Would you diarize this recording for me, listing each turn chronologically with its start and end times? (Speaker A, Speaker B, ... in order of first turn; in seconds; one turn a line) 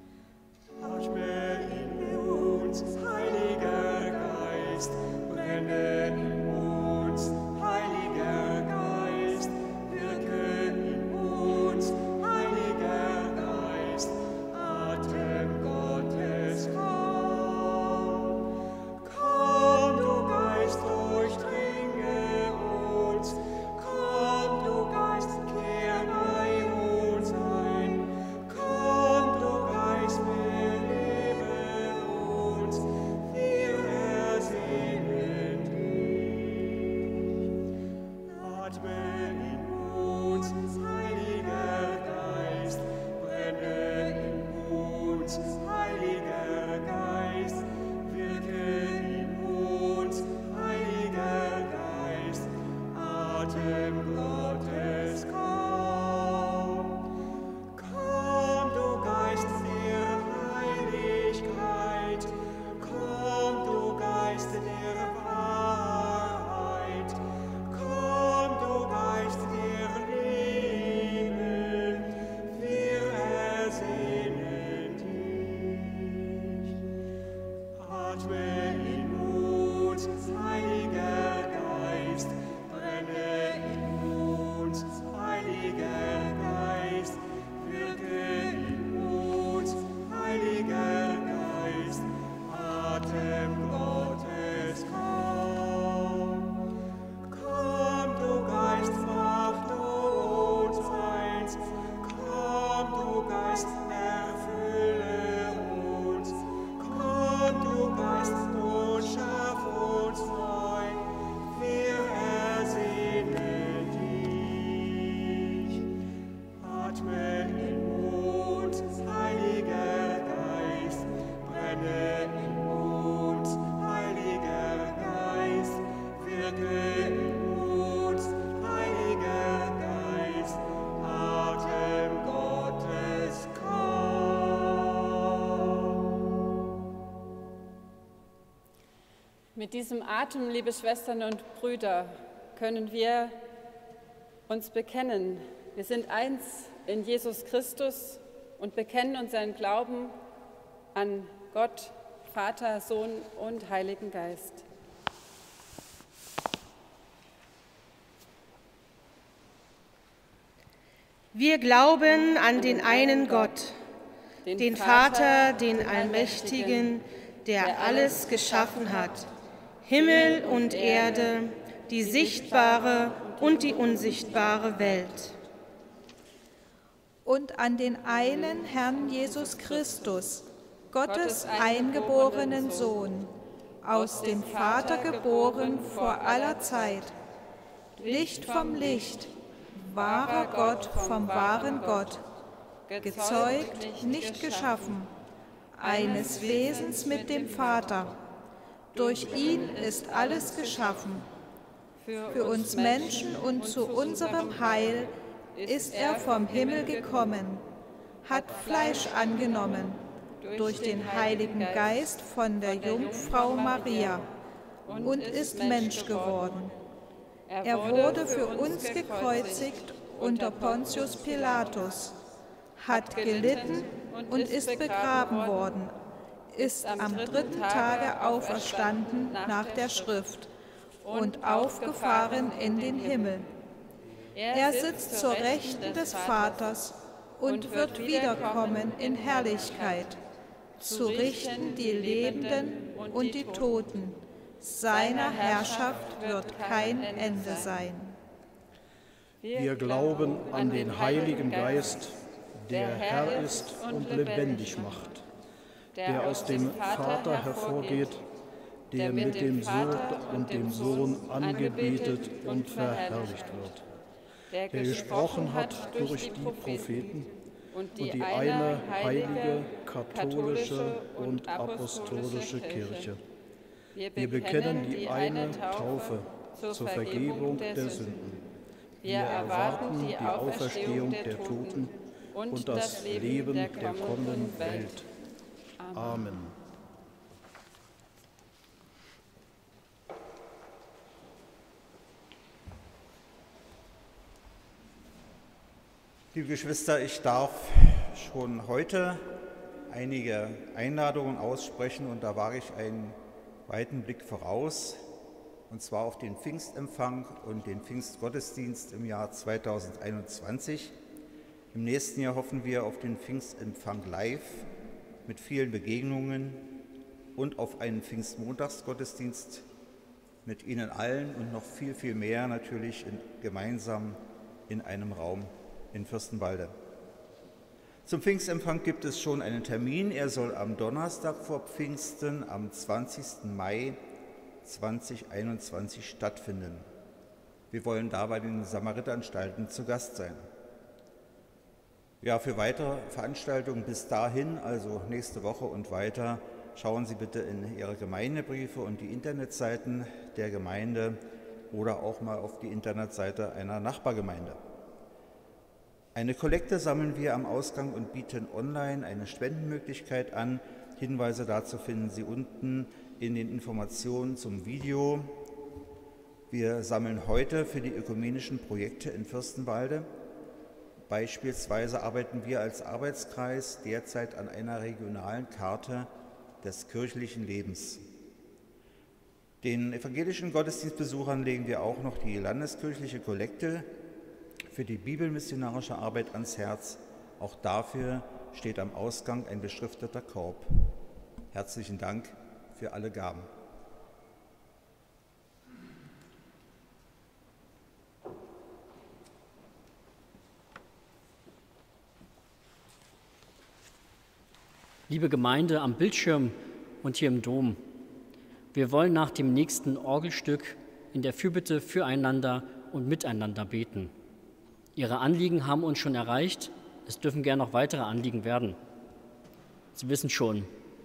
Speaker A: 139.6-143.4
Speaker A: 144.5-150.2
Speaker A: 150.9-154.6
Speaker B: 161.3-163.8
Speaker A: 162.2-163.5
Speaker A: 164.4-166.9
Speaker B: 164.6-169.3
Speaker A: 167.6-169.2
Speaker B: 169.8-175.3
Speaker A: 170.0-171.4
Speaker A: 172.0-175.1
Speaker C: 177.2-183.3
Speaker A: 178.6-180.0
Speaker A: 181.1-183.0
Speaker C: 183.8-187.1
Speaker A: 183.9-187.1
Speaker A: 188.0-189.1
Speaker C: 188.1-192.2
Speaker A: 190.0-192.2
Speaker A: 192.9-195.0
Speaker C: 193.0-195.1
Speaker C: 195.8-198.2
Speaker A: 195.8-198.0
Speaker A: 198.9-200.9
Speaker C: 198.9-201.3
Speaker A: 202.0-207.3
Speaker C: 202.3-205.1
Speaker C: 205.7-207.6
Speaker C: 208.2-210.0
Speaker A: 208.3-209.8
Speaker A: 210.4-212.0
Speaker C: 210.6-214.3
Speaker A: 212.6-214.3
Speaker A: 214.8-216.6
Speaker C: 215.0-216.7
Speaker A: 217.5-222.0
Speaker C: 217.6-222.2
Speaker C: 222.8-226.0
Speaker A: 222.9-225.7
Speaker C: 226.5-230.5
Speaker A: 226.6-230.2
Speaker A: 231.0-233.5
Speaker C: 231.1-233.5
Speaker A: 234.3-236.8
Speaker C: 234.5-240.2
Speaker A: 237.4-240.2
Speaker A: 240.8-243.9
Speaker C: 240.8-248.2
Speaker A: 244.9-247.7
Speaker A: 249.4-252.0
Speaker D: 249.5-255.2
Speaker A: 252.7-255.0
Speaker A: 255.9-258.2
Speaker D: 256.0-258.2
Speaker D: 258.9-263.8
Speaker A: 259.0-263.7
Speaker A: 264.5-266.9
Speaker D: 264.7-267.3
Speaker A: 267.7-273.1
Speaker D: 268.0-273.2
Speaker A: 273.9-278.1
Speaker D: 274.2-278.4
Speaker D: 279.0-281.9
Speaker A: 279.0-285.0
Speaker D: 282.5-285.1
Speaker A: 285.8-286.3
Speaker D: 285.9-286.6
Speaker E: 296.3-299.3
Speaker E: 299.9-305.1
Speaker E: 305.7-311.0
Speaker E: 311.7-314.7
Speaker E: 315.3-316.6
Speaker E: 317.4-319.6
Speaker E: 320.4-326.8
Speaker E: 328.1-334.0
Speaker E: 334.6-336.9
Speaker E: 337.7-340.5
Speaker E: 342.2-354.6
Speaker E: 356.1-365.4
Speaker E: 366.5-370.1
Speaker E: 371.1-376.1
Speaker E: 376.6-378.0
Speaker E: 379.6-383.9
Speaker E: 384.7-390.7
Speaker E: 391.5-393.5
Speaker F: 405.1-407.8
Speaker F: 408.7-414.1
Speaker F: 415.0-418.8
Speaker F: 419.9-420.7